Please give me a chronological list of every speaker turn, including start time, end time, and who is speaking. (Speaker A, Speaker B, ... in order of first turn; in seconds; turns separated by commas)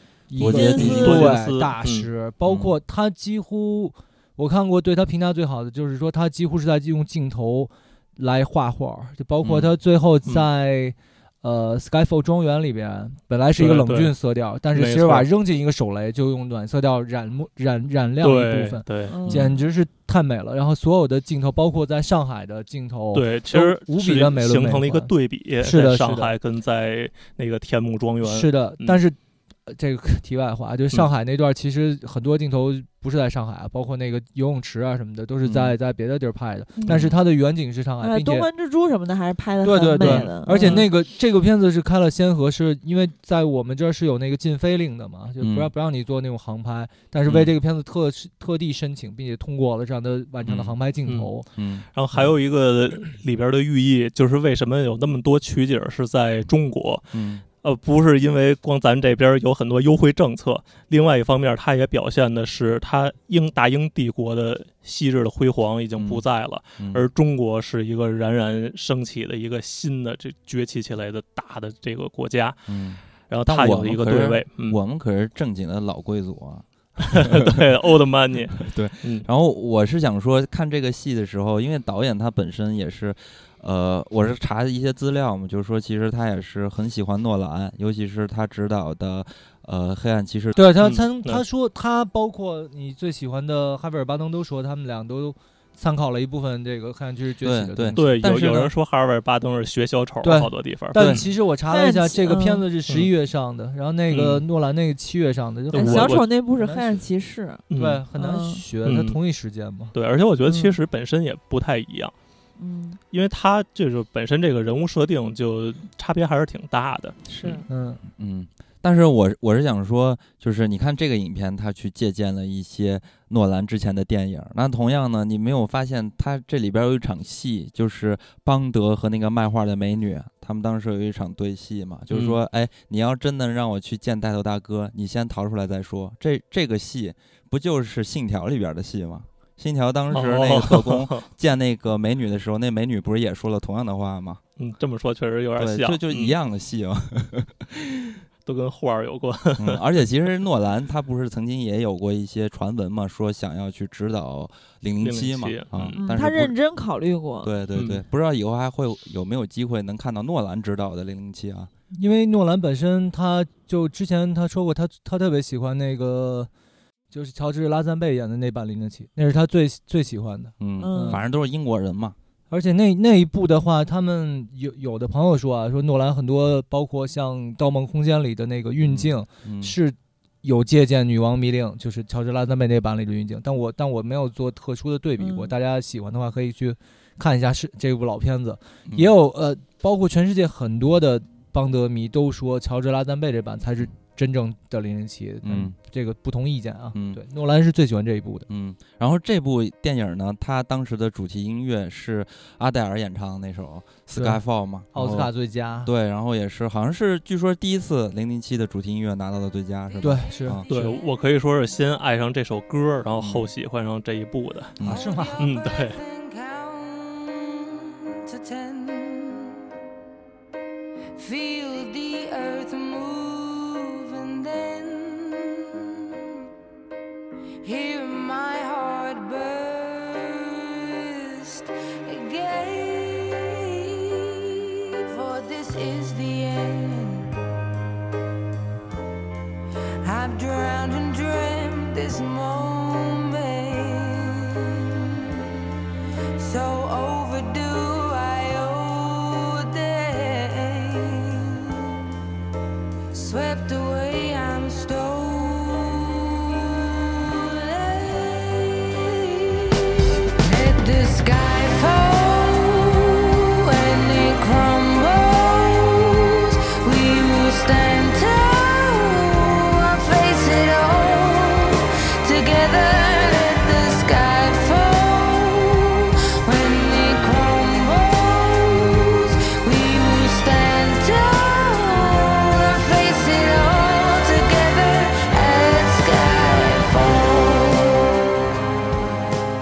Speaker A: 0.3-25.1, Speaker B: 0.3-1.3, Speaker C: 0.4-2.1, Speaker D: 0.5-1.1, Speaker B: 2.5-2.7, Speaker B: 9.4-9.7, Speaker C: 13.6-14.1, Speaker C: 14.7-15.2, Speaker C: 18.2-19.2, Speaker D: 19.1-19.6, Speaker B: 19.2-19.5, Speaker C: 23.1-29.0, Speaker A: 25.6-26.4, Speaker A: 28.2-38.5, Speaker B: 35.4-35.7, Speaker B: 36.9-37.1, Speaker D: 38.0-40.9, Speaker A: 39.6-51.4, Speaker C: 40.0-40.8, Speaker B: 45.4-45.7, Speaker B: 50.5-50.7, Speaker B: 51.5-51.9, Speaker C: 51.9-72.7, Speaker B: 57.1-57.4, Speaker B: 66.0-66.2, Speaker B: 66.8-67.0, Speaker B: 72.7-77.6, Speaker C: 73.3-74.8, Speaker C: 77.0-79.3, Speaker B: 78.6-90.6, Speaker A: 90.5-98.0, Speaker C: 90.8-91.4, Speaker B: 97.4-98.7, Speaker C: 98.0-101.3, Speaker A: 100.2-107.0, Speaker B: 100.9-101.2, Speaker D: 101.7-102.6, Speaker C: 104.1-104.4, Speaker C: 105.7-106.2, Speaker D: 105.7-107.6, Speaker C: 107.7-108.0, Speaker A: 107.7-109.9, Speaker D: 108.2-108.6, Speaker C: 108.8-109.2, Speaker C: 109.9-112.1, Speaker D: 110.5-110.7, Speaker D: 112.6-113.0, Speaker C: 113.1-117.6, Speaker D: 117.3-117.7, Speaker A: 117.7-118.0, Speaker B: 118.1-144.4, Speaker C: 132.1-132.4, Speaker C: 140.1-141.3, Speaker C: 144.6-146.3, Speaker B: 145.6-148.2, Speaker C: 148.4-149.8, Speaker B: 149.6-156.5, Speaker C: 155.0-156.0, Speaker D: 156.0-157.5, Speaker B: 157.4-161.7, Speaker C: 157.7-158.0, Speaker A: 161.9-166.5, Speaker A: 167.1-171.2, Speaker B: 170.6-172.2, Speaker D: 170.8-171.2, Speaker A: 172.5-198.4, Speaker B: 178.8-179.8, Speaker D: 185.2-185.5, Speaker B: 195.4-195.7, Speaker B: 196.9-197.2, Speaker B: 198.5-205.3, Speaker A: 204.2-204.4, Speaker A: 204.9-205.9, Speaker B: 205.8-210.7, Speaker A: 210.0-210.9, Speaker C: 210.7-214.8, Speaker B: 213.2-213.5, Speaker E: 214.8-219.7, Speaker A: 214.8-215.5, Speaker C: 215.4-216.0, Speaker E: 221.1-226.4, Speaker E: 227.6-237.3, Speaker E: 240.0-245.4, Speaker E: 246.3-252.0, Speaker E: 253.1-288.3